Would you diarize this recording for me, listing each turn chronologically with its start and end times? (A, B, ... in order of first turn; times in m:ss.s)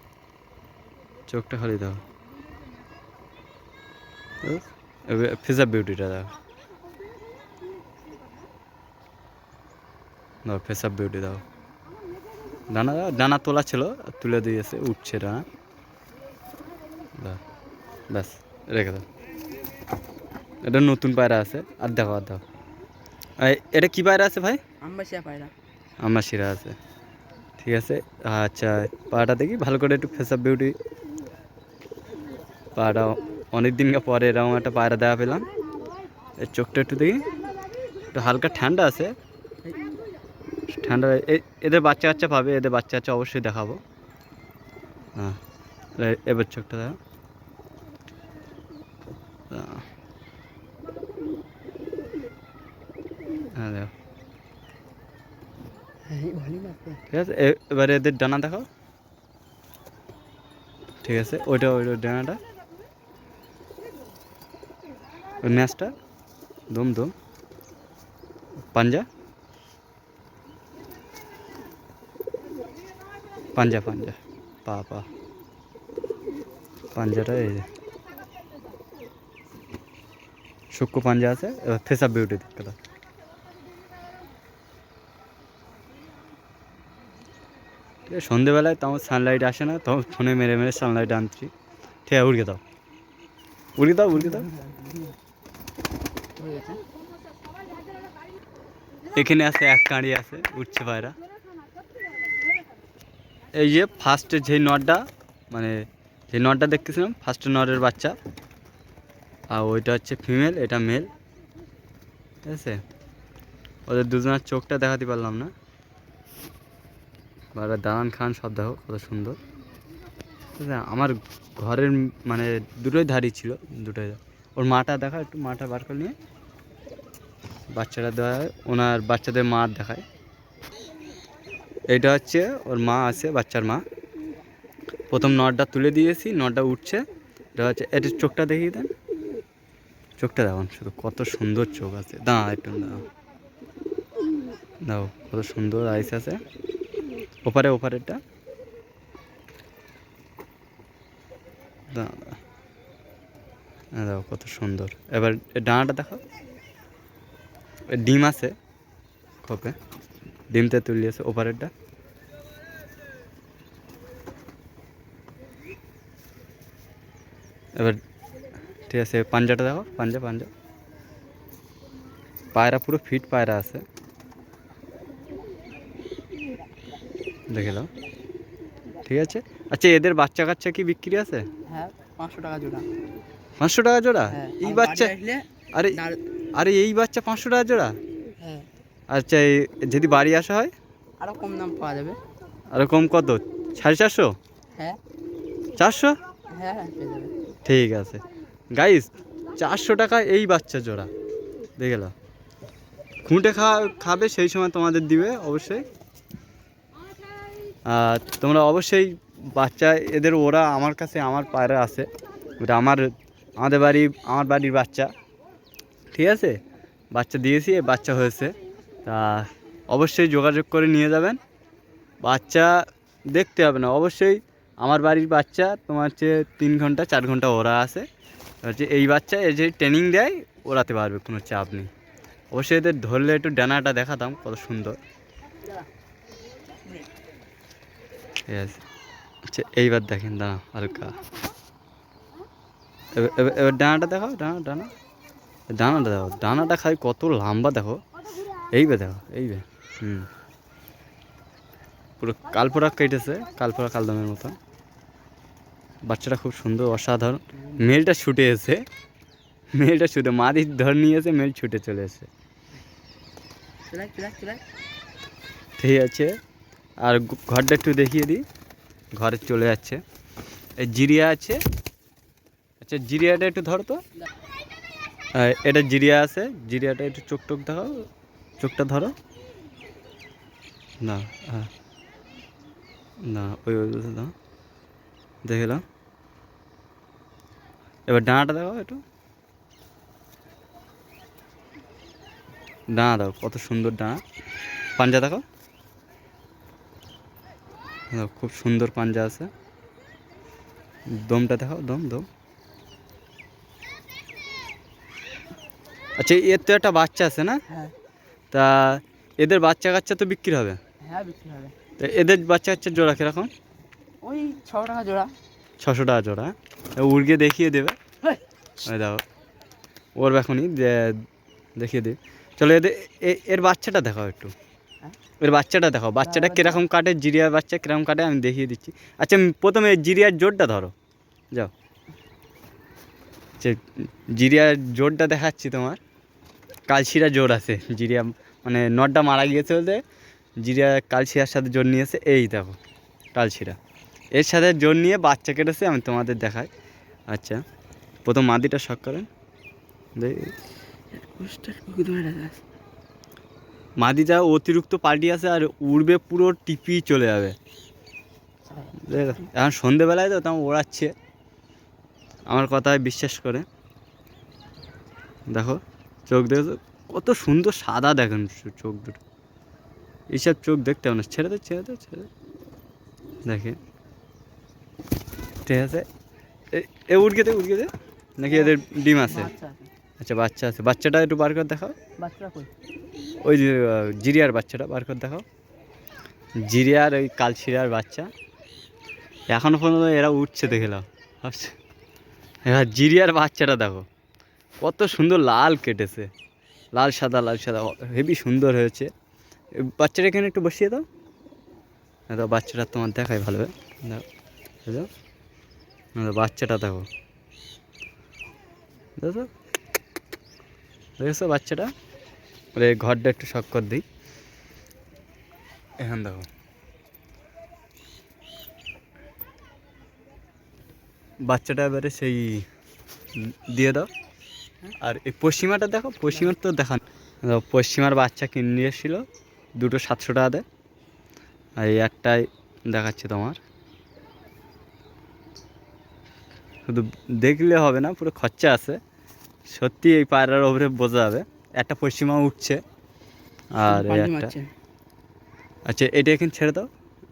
0:01.3-0:02.0 A
0:04.4-0:06.3 A
0:10.4-0:11.4 A
0:12.7-0:15.4 A
0:18.1-0:19.0 A
0:20.6-0:22.4 A
0:23.4-0:24.6 A
0:24.8-0:25.5 B
0:26.0-0:26.8 A
0:27.6-0:30.8 A
0:32.8-0:35.5 A
0:36.4-0:37.2 A
0:38.1-0:39.1 A
0:40.7-0:43.8 A
0:46.0-0:47.0 A
0:49.5-0:49.8 A
0:53.6-0:53.9 A
0:56.1-0:57.0 B
0:57.1-0:58.7 A
1:01.0-1:02.4 A
1:05.4-1:06.0 A
1:06.7-1:07.1 A
1:08.7-1:09.1 A
1:13.6-1:15.1 A
1:17.0-1:17.6 A
1:20.7-1:22.8 A
1:28.1-1:31.5 A
1:32.1-1:32.6 A
1:33.8-1:34.5 A
1:34.1-1:35.1 B
1:36.4-1:36.8 B
1:39.2-1:41.2 A
1:43.6-1:48.2 A
1:49.5-1:51.1 A
1:52.5-1:52.8 A
1:53.9-1:55.5 A
1:57.6-1:59.4 A
2:00.6-2:06.1 A
2:07.8-2:10.0 A
2:11.9-2:13.8 A
2:15.1-2:17.0 A
2:17.6-2:18.9 A
2:20.2-2:23.0 A
2:24.8-2:26.4 A
2:27.4-2:28.2 A
2:31.9-2:32.4 A
2:34.0-2:36.2 A
2:37.9-2:38.5 A
2:39.4-2:39.8 A
2:40.5-2:41.7 A
2:47.8-2:48.0 A
2:48.9-2:50.5 A
2:52.5-2:53.8 A
2:57.5-2:57.9 A
2:59.1-3:01.4 A
3:01.7-3:02.9 B
3:03.6-3:05.1 A
3:04.3-3:06.2 B
3:06.6-3:08.0 A
3:08.4-3:08.7 B
3:09.1-3:10.7 A
3:11.2-3:12.2 B
3:12.7-3:14.4 A
3:15.8-3:16.1 A
3:16.5-3:17.3 B
3:17.6-3:18.2 A
3:18.8-3:21.1 A
3:21.8-3:22.1 A
3:23.2-3:25.8 A
3:27.9-3:32.1 A
3:32.6-3:35.1 A
3:36.1-3:36.6 A
3:37.1-3:41.4 A
3:42.2-3:48.1 A
3:48.6-3:51.9 A
3:52.5-3:55.0 A
3:56.8-3:57.1 B
3:58.5-3:58.8 A
3:59.5-4:01.2 A
4:03.1-4:04.9 A
4:05.7-4:08.0 A
4:08.7-4:10.3 A
4:12.2-4:14.6 A
4:16.0-4:18.8 A
4:19.7-4:22.3 A
4:23.9-4:24.6 B
4:25.8-4:26.3 A
4:27.0-4:28.4 A
4:29.2-4:30.0 A
4:30.8-4:31.6 A
4:32.8-4:34.0 A
4:35.4-4:38.1 A
4:38.6-4:39.2 A
4:41.0-4:41.7 A
4:43.2-4:44.3 A
4:45.4-4:45.8 A
4:48.1-4:49.0 A
4:52.9-4:54.2 A
4:55.0-4:55.4 A
4:58.1-4:59.5 A
5:01.1-5:02.3 A
5:06.2-5:07.6 A
5:08.5-5:10.8 A
5:11.0-5:11.8 B
5:12.0-5:13.5 A
5:14.2-5:15.3 B
5:15.8-5:18.0 A
5:18.8-5:19.2 A
5:20.2-5:21.2 A
5:21.8-5:24.5 A
5:25.4-5:30.9 A
5:26.2-5:26.8 B
5:33.6-5:36.0 A
5:36.9-5:40.0 A
5:40.6-5:42.8 A
5:43.3-5:43.8 A
5:44.4-5:46.7 A
5:47.3-5:47.6 A
5:48.2-5:49.3 A
5:50.2-5:50.5 A
5:51.1-5:52.6 B
5:54.0-5:57.6 A
5:58.7-5:59.4 B
5:59.0-6:01.1 A
6:02.5-6:03.6 A
6:05.5-6:09.2 A
6:10.3-6:12.3 A
6:13.5-6:13.8 A
6:15.6-6:16.1 A
6:16.7-6:19.5 A
6:18.5-6:19.9 B
6:20.2-6:22.0 A
6:22.2-6:22.7 B
6:23.4-6:25.4 A
6:26.6-6:28.3 A
6:29.5-6:31.8 A
6:32.6-6:34.0 A
6:34.8-6:36.3 A
6:37.0-6:39.1 A
6:39.8-6:41.0 A
6:42.3-6:44.3 A
6:46.2-6:47.1 A
6:49.2-6:49.5 A
6:51.2-6:51.9 A
6:52.8-6:54.0 A
6:56.0-6:56.5 A
7:01.5-7:02.7 A
7:03.4-7:04.1 A
7:05.0-7:09.2 A
7:09.8-7:10.6 A
7:11.8-7:13.6 A
7:16.9-7:19.0 A
7:19.7-7:22.8 A
7:23.8-7:24.6 A
7:23.8-7:24.7 B
7:25.9-7:26.9 A